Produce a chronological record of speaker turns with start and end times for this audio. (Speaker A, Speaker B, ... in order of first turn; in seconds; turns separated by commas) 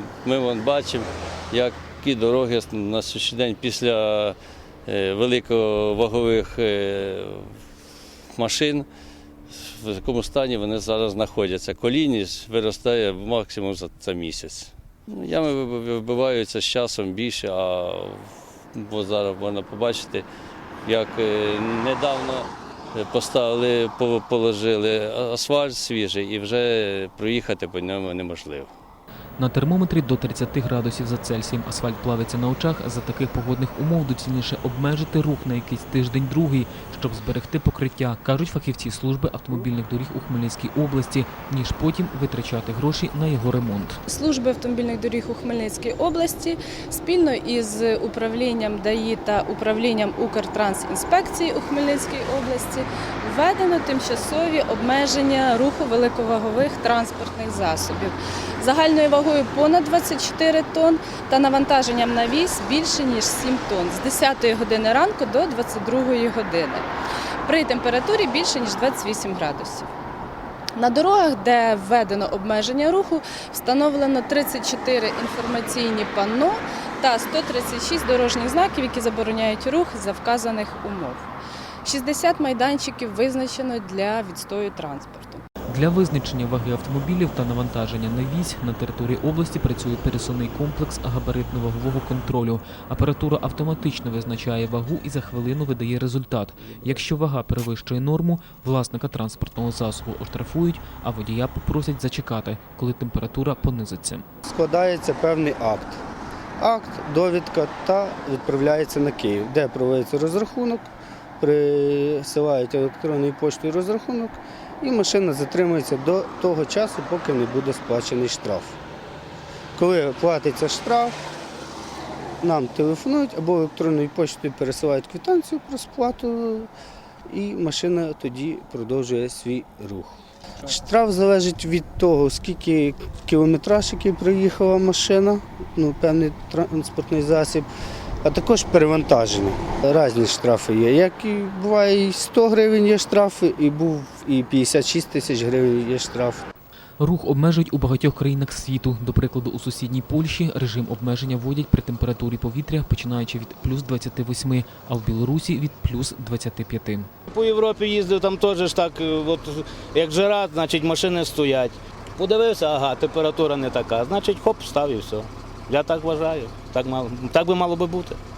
Speaker A: 0.2-7.6, Speaker A: 8.4-8.9, Speaker A: 9.5-20.2, Speaker A: 20.9-28.7, Speaker B: 29.4-44.0, Speaker C: 44.1-66.9, Speaker C: 67.5-69.9, Speaker C: 70.8-81.3, Speaker C: 81.8-85.4, Speaker B: 85.7-104.2, Speaker D: 104.5-106.0, Speaker D: 106.6-110.9, Speaker D: 111.4-118.8, Speaker D: 119.8-121.2, Speaker D: 122.4-126.7, Speaker D: 127.3-137.7, Speaker D: 138.2-146.4, Speaker B: 147.0-157.1, Speaker E: 157.3-168.2